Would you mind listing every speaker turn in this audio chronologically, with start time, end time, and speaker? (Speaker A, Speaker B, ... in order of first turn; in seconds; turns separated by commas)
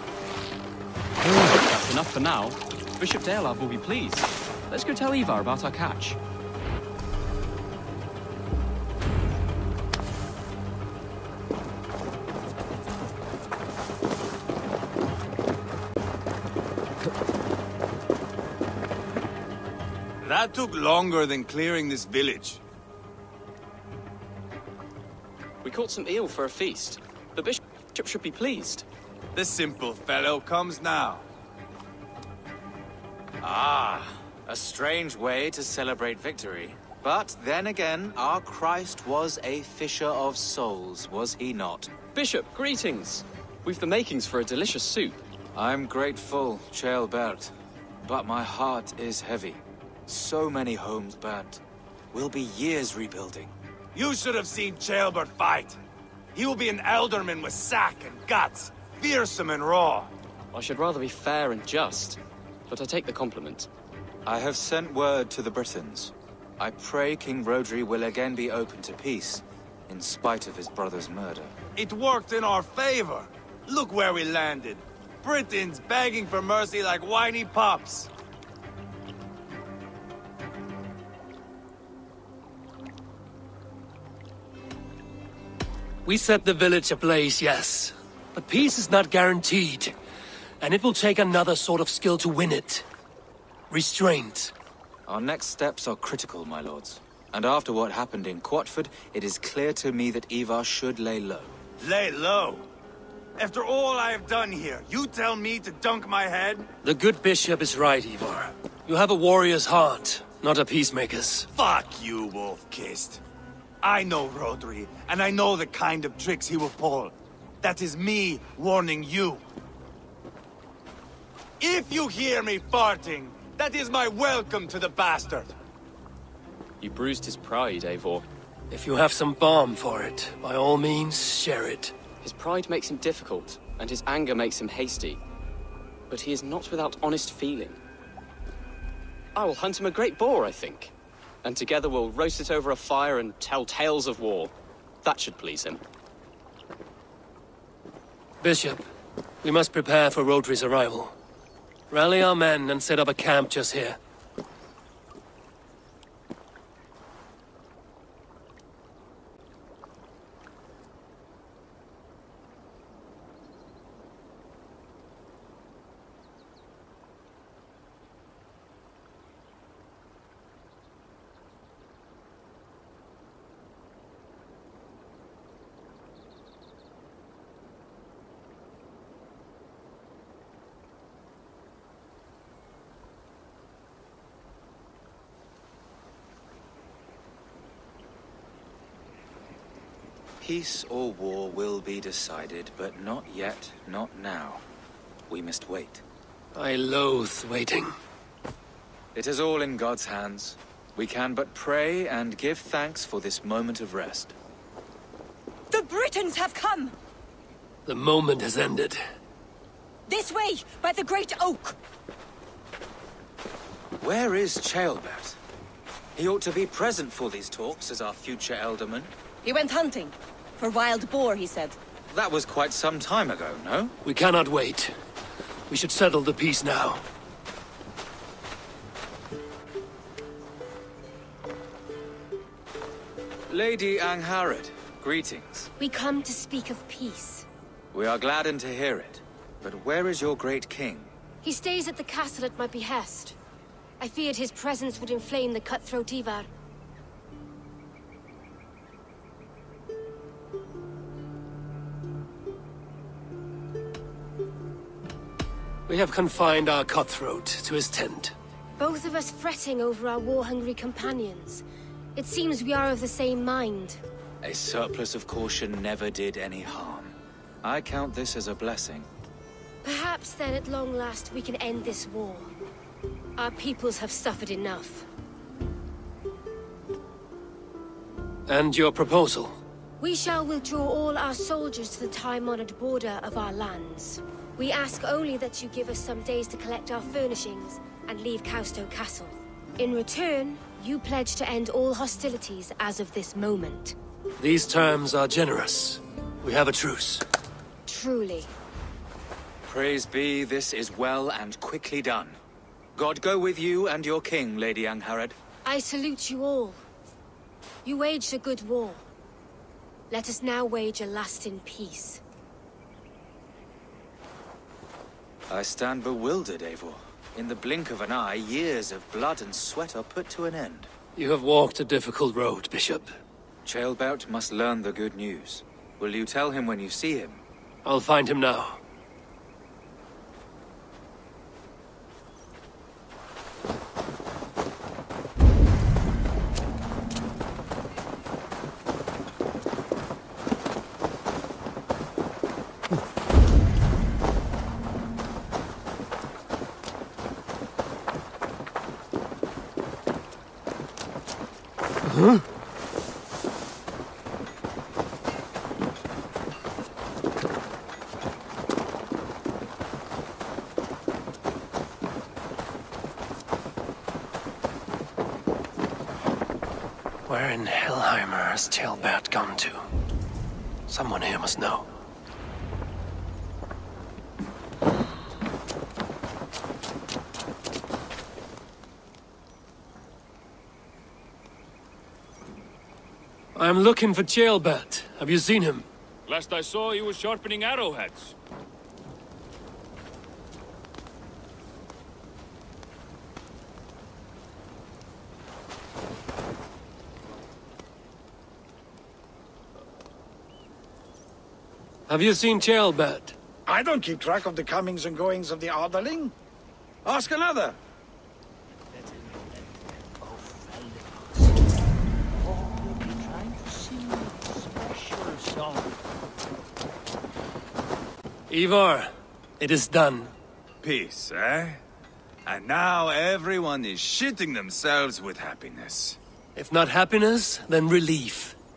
Speaker A: 1.2-6.2, Speaker B: 20.2-22.6, Speaker A: 25.6-28.9, Speaker B: 29.3-31.2, Speaker C: 33.4-41.9, Speaker A: 42.1-45.2, Speaker C: 45.5-51.6, Speaker C: 52.1-53.5, Speaker B: 53.9-55.8, Speaker B: 56.3-60.1, Speaker A: 60.5-63.7, Speaker C: 64.2-71.5, Speaker B: 71.8-78.1, Speaker D: 86.0-90.0, Speaker D: 90.6-92.8, Speaker D: 93.7-94.5, Speaker C: 95.1-101.5, Speaker B: 101.8-102.7, Speaker B: 103.4-106.7, Speaker D: 106.8-111.5, Speaker B: 111.5-113.2, Speaker B: 113.8-119.4, Speaker B: 121.6-125.5, Speaker A: 126.8-128.2, Speaker D: 128.7-132.0, Speaker A: 132.2-135.2, Speaker A: 136.1-137.8, Speaker A: 139.3-145.8, Speaker D: 148.4-148.9, Speaker D: 149.4-151.2, Speaker D: 151.9-154.0, Speaker C: 190.4-194.6, Speaker C: 195.3-196.0, Speaker D: 196.5-197.9, Speaker C: 199.1-204.3, Speaker E: 205.7-206.9, Speaker D: 207.8-209.0, Speaker E: 210.1-211.8, Speaker C: 214.0-215.4, Speaker C: 216.1-219.1, Speaker E: 219.4-221.8, Speaker C: 222.1-223.9, Speaker D: 224.0-224.9, Speaker D: 225.7-227.0, Speaker C: 233.5-235.7, Speaker F: 235.8-237.5, Speaker C: 237.9-241.1, Speaker F: 241.4-243.3, Speaker F: 244.0-246.5, Speaker D: 255.9-258.3, Speaker F: 258.8-261.6, Speaker F: 262.1-264.0, Speaker C: 264.4-269.1, Speaker F: 269.8-272.5, Speaker F: 273.4-275.1, Speaker D: 278.5-279.6, Speaker F: 280.0-293.9, Speaker D: 294.4-297.2, Speaker F: 297.9-298.5, Speaker C: 299.6-302.4, Speaker C: 302.9-305.4, Speaker F: 305.6-306.8, Speaker F: 307.8-309.1, Speaker F: 310.1-312.2, Speaker C: 315.5-320.9, Speaker D: 321.1-323.1, Speaker C: 323.6-327.4, Speaker D: 327.8-328.8, Speaker D: 352.1-352.4, Speaker D: 367.3-369.8, Speaker D: 370.9-371.9, Speaker D: 383.5-385.9, Speaker G: 386.3-388.3, Speaker D: 402.1-403.4, Speaker H: 403.7-406.3, Speaker H: 407.0-407.8, Speaker D: 418.5-420.3, Speaker B: 420.8-421.8, Speaker B: 422.4-426.2, Speaker D: 426.5-428.6